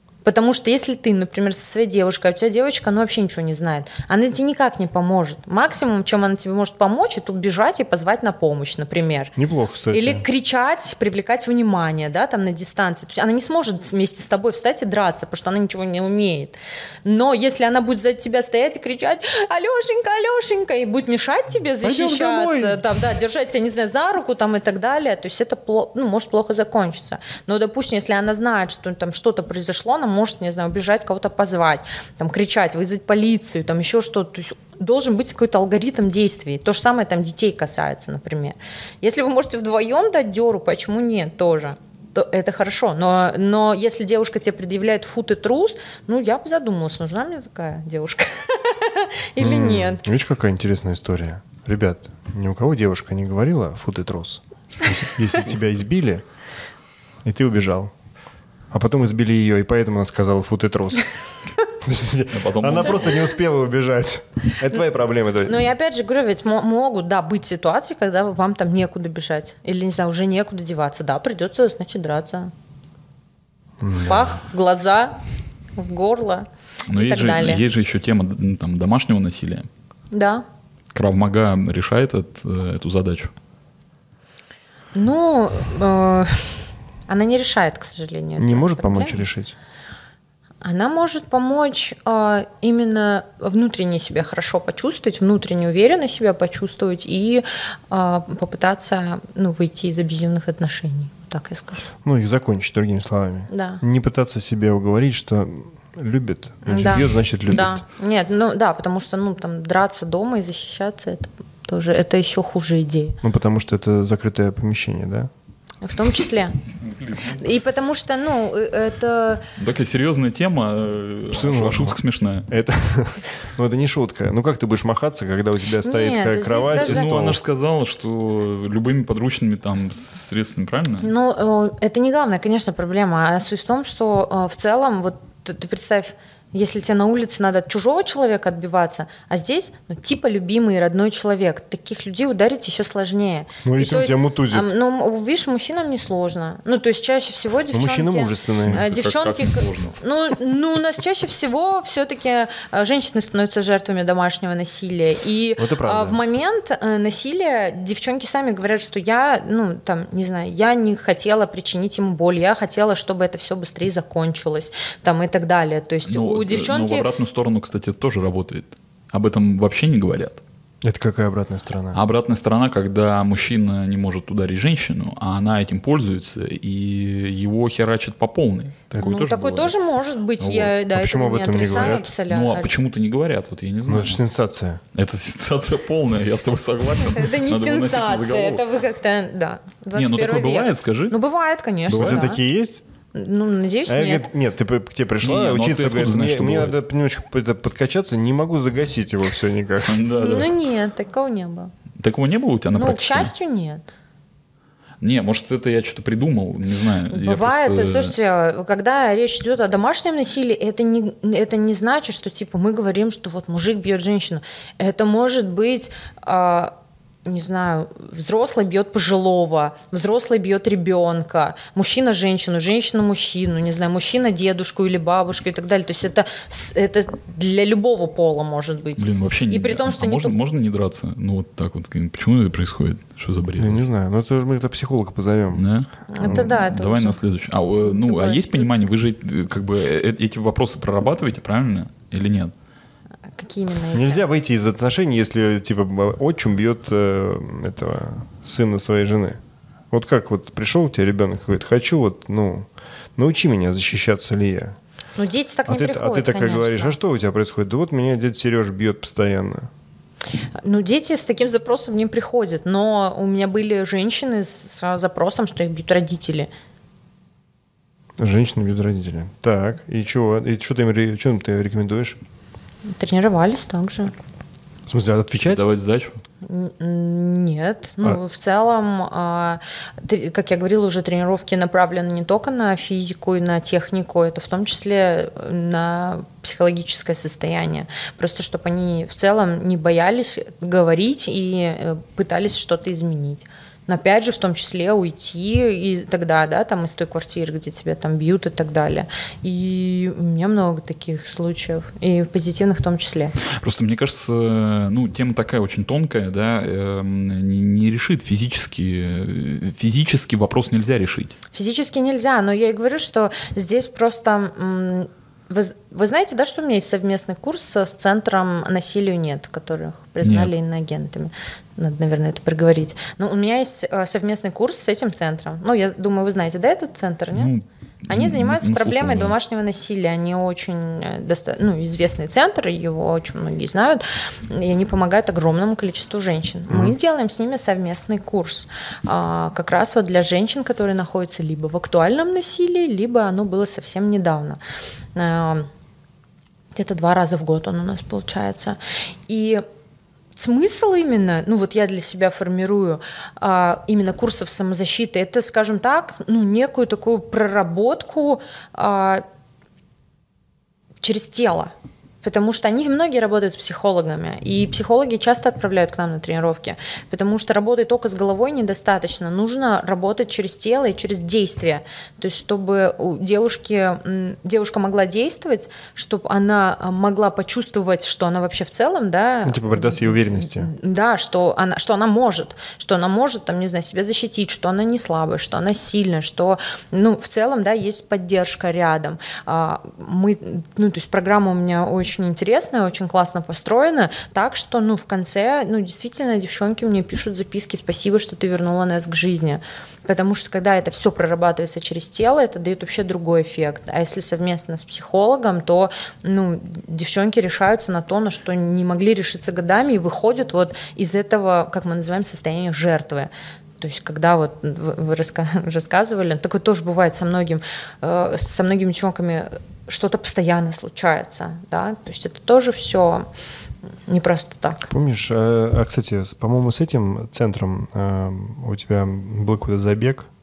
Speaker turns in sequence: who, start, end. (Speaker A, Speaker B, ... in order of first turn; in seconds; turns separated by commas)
Speaker A: 0.2-9.3, Speaker B: 9.4-10.2, Speaker A: 9.9-50.0, Speaker B: 21.8-22.8, Speaker B: 49.4-56.2, Speaker B: 57.2-57.9, Speaker B: 58.7-61.1, Speaker B: 61.8-65.7, Speaker C: 62.3-63.3, Speaker A: 65.5-72.5, Speaker B: 73.8-74.3, Speaker A: 74.0-75.2, Speaker A: 75.8-77.6, Speaker C: 76.9-79.7, Speaker A: 80.1-80.5, Speaker C: 80.9-83.3, Speaker A: 85.0-89.2, Speaker B: 88.4-89.5, Speaker A: 90.6-101.9, Speaker B: 102.0-107.8, Speaker A: 103.5-103.8, Speaker A: 106.7-113.2, Speaker B: 113.2-115.3, Speaker A: 115.8-116.6, Speaker C: 116.9-117.4, Speaker A: 117.4-119.4, Speaker C: 119.6-122.5, Speaker B: 121.3-122.0, Speaker B: 122.5-127.4, Speaker A: 125.8-127.1, Speaker C: 126.7-131.1, Speaker A: 131.0-167.1, Speaker B: 143.7-144.7, Speaker B: 147.7-148.8, Speaker C: 148.6-150.0, Speaker B: 155.6-156.2, Speaker C: 166.1-170.4, Speaker B: 170.8-172.0, Speaker C: 171.9-179.8, Speaker A: 179.0-182.7, Speaker C: 180.4-180.7, Speaker B: 180.9-182.1, Speaker C: 181.7-184.2, Speaker B: 183.9-184.8, Speaker C: 184.9-188.6, Speaker A: 187.1-192.4, Speaker C: 189.9-191.2, Speaker B: 191.9-192.8, Speaker C: 191.9-192.2, Speaker A: 193.1-194.3, Speaker B: 193.9-200.0, Speaker C: 195.2-196.8, Speaker C: 199.8-200.5, Speaker A: 200.1-201.7, Speaker C: 202.0-203.3, Speaker A: 202.8-203.8, Speaker C: 205.0-208.1, Speaker A: 207.1-216.7, Speaker A: 217.3-230.3, Speaker C: 229.0-233.8, Speaker B: 233.6-235.7, Speaker C: 235.5-242.5, Speaker A: 236.1-237.2, Speaker A: 237.8-238.9, Speaker A: 243.3-244.2, Speaker B: 243.9-249.4, Speaker B: 249.9-254.8, Speaker A: 255.2-256.9, Speaker B: 255.7-259.7, Speaker A: 260.6-266.5, Speaker B: 268.2-272.2, Speaker A: 272.9-274.1, Speaker B: 274.9-275.6, Speaker C: 275.4-276.2, Speaker A: 276.4-303.4, Speaker C: 303.5-311.4, Speaker A: 311.5-327.5, Speaker C: 320.2-320.5, Speaker C: 327.3-329.4, Speaker A: 328.1-344.6, Speaker B: 336.7-336.9, Speaker A: 345.1-345.7, Speaker A: 346.8-349.6, Speaker A: 350.4-359.2, Speaker A: 361.0-423.3, Speaker B: 379.4-380.7, Speaker A: 424.1-424.9, Speaker B: 424.9-430.3